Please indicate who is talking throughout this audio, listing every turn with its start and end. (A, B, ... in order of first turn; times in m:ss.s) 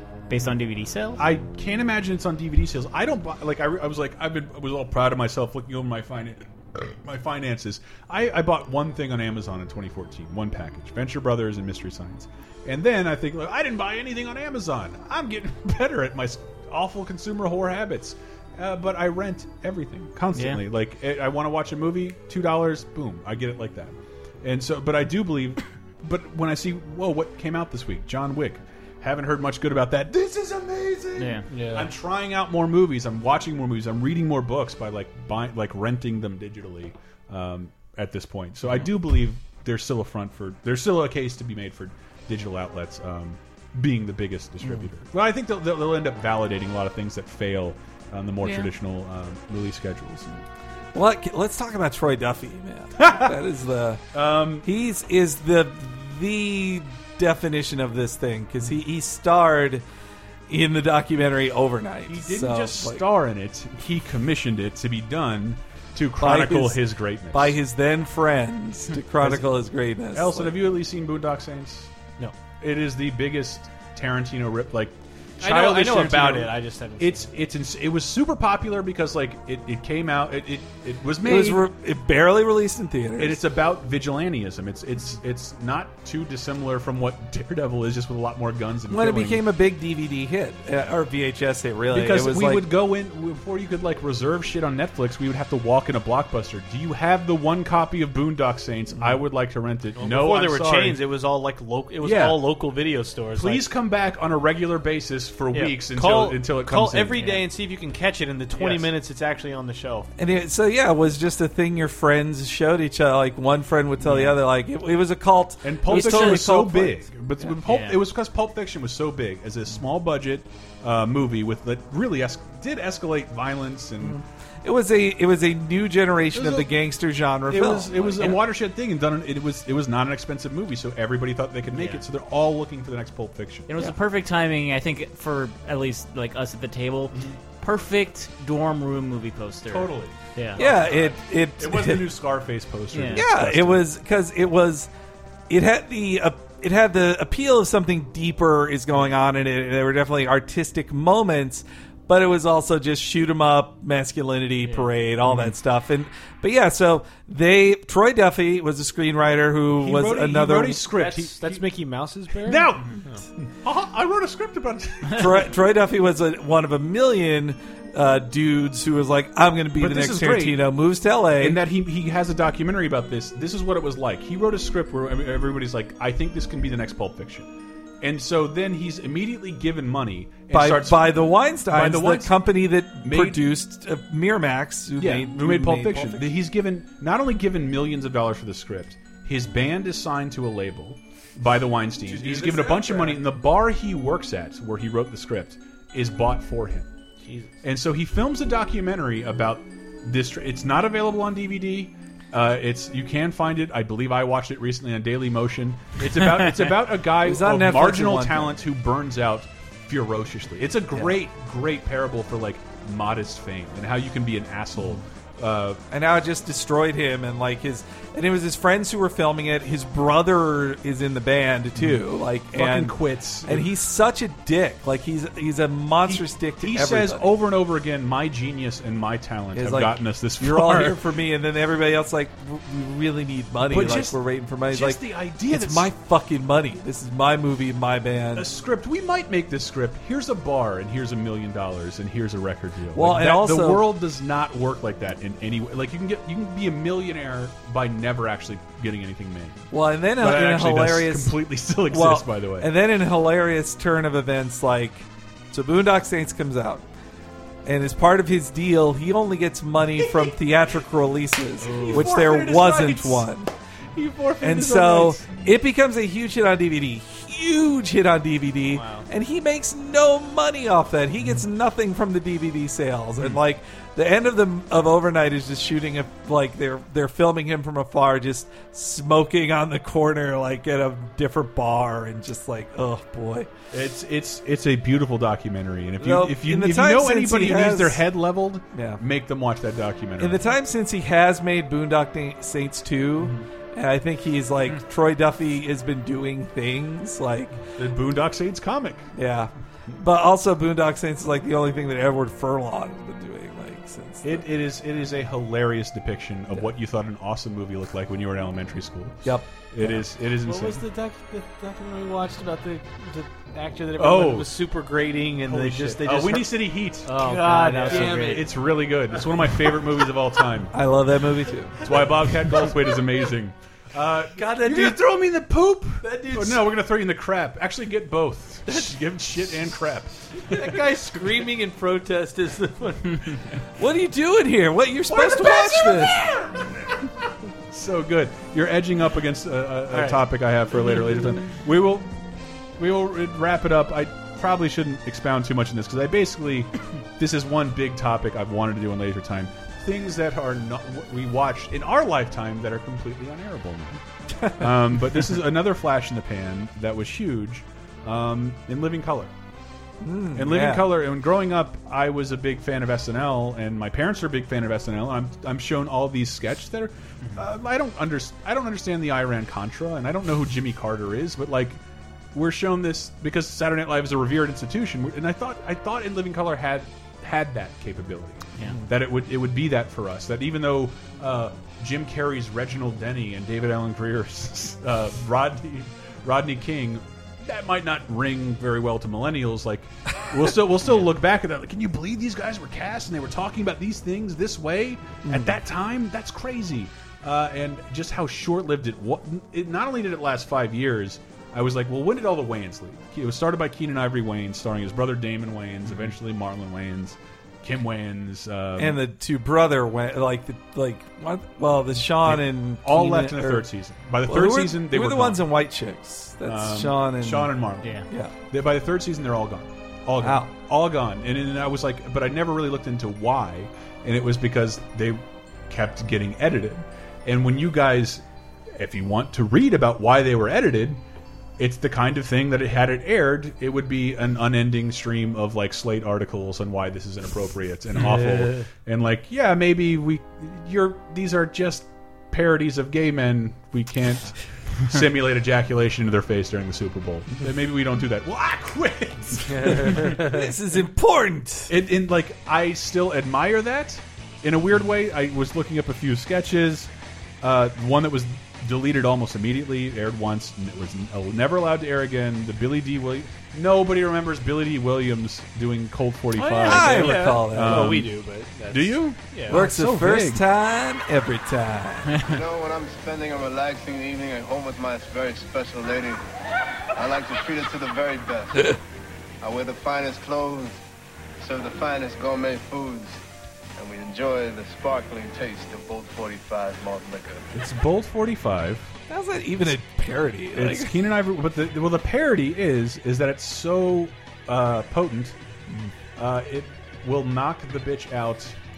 0:00.3-0:01.2 A
0:01.2-0:50.3 B
0:20.3-0:20.6 A
0:31.2-0:31.4 A
0:31.5-0:31.9 C
0:48.4-0:48.7 A
0:50.9-0:54.0 D
0:53.0-0:53.3 B
0:54.1-0:54.7 B
0:54.6-0:59.8 D
1:00.5-1:03.0 D
1:02.1-1:07.6 B
1:06.2-1:10.6 D
1:09.2-1:09.5 B
1:10.1-1:11.9 B
1:12.6-1:21.6 B
1:15.4-1:17.3 C
1:21.2-1:23.4 D
1:23.2-1:29.4 B
1:28.9-1:32.7 D
1:31.9-1:41.0 B
1:40.0-1:43.7 C
1:42.0-1:42.5 B
1:43.3-1:47.2 B
1:45.5-1:50.1 C
1:47.2-1:47.4 A
1:48.5-1:48.9 B
1:50.2-1:56.7 D
1:55.6-2:04.2 B
1:55.9-1:57.0 A
1:57.6-1:58.0 A
2:04.0-2:08.4 D
2:06.3-2:06.7 B
2:07.4-2:13.7 B
2:08.0-2:08.4 A
2:11.7-2:12.0 A
2:13.7-2:20.6 A
2:17.1-2:17.4 B
2:19.7-2:23.8 B
2:20.6-2:22.1 D
2:22.9-2:23.2 A
2:23.1-2:24.9 D
2:25.5-2:40.9 D
2:39.7-2:41.7 B
2:40.9-2:43.2 C
2:42.4-2:45.4 B
2:45.1-2:51.6 D
2:49.8-2:50.6 B
2:51.4-2:57.5 B
2:58.0-3:02.4 B
3:00.5-3:06.4 D
3:03.0-3:03.4 B
3:05.0-3:16.9 B
3:12.0-3:13.2 C
3:17.2-3:17.5 C
3:17.6-3:35.8 B
3:27.2-3:28.6 D
3:35.9-3:47.3 D
3:41.8-3:42.0 B
3:42.5-3:43.7 B
3:46.0-3:51.0 B
3:49.5-3:58.5 D
3:53.7-3:54.2 B
3:54.7-3:55.9 B
3:58.3-4:09.6 B
4:02.9-4:03.9 D
4:09.7-4:16.8 D
4:10.2-4:12.7 B
4:17.6-4:23.5 D
4:20.0-4:20.3 B
4:21.6-4:22.1 C
4:21.9-4:23.3 B
4:23.9-4:25.4 B
4:24.4-4:43.5 D
4:28.7-4:29.1 C
4:43.7-4:50.4 B
4:46.0-4:48.1 D
4:48.7-4:49.0 D
4:50.2-4:57.6 D
4:53.2-4:53.4 B
4:57.8-4:59.1 B
4:59.1-5:04.5 D
5:04.2-5:10.8 B
5:09.2-5:10.0 D
5:10.4-5:18.5 C
5:14.0-5:14.5 B
5:15.4-5:20.7 B
5:17.2-5:18.5 A
5:20.7-5:21.8 D
5:21.8-5:30.6 B
5:24.4-5:25.1 C
5:26.0-5:26.7 C
5:30.4-5:33.4 C
5:33.8-5:36.3 D
5:35.1-5:37.1 B
5:37.7-5:42.2 B
5:39.9-5:40.2 C
5:42.8-5:59.3 B
5:54.4-5:55.2 D
6:00.0-6:00.9 D
6:00.3-6:11.8 B
6:12.3-6:49.0 B
6:35.2-6:35.6 D
6:48.8-6:53.7 D
6:52.2-6:55.4 B
6:54.2-6:58.3 D
6:56.4-7:08.2 B
6:57.8-6:58.1 A
7:00.2-7:00.5 D
7:08.7-7:11.0 B
7:11.6-7:30.2 B
7:18.1-7:18.6 C
7:29.4-7:30.5 C
7:29.7-7:31.7 D
7:31.7-7:36.9 B
7:37.4-7:48.2 B
7:46.3-7:49.6 C
7:46.5-7:48.1 D
7:48.7-7:50.4 B
7:49.5-7:52.1 D
7:52.2-7:56.2 E
7:57.0-7:58.8 E
7:59.4-8:00.8 E
8:01.4-8:03.2 E
8:03.8-8:07.4 E
8:07.5-8:08.9 B
8:09.1-8:11.1 D
8:10.5-8:15.4 B
8:16.1-8:18.6 B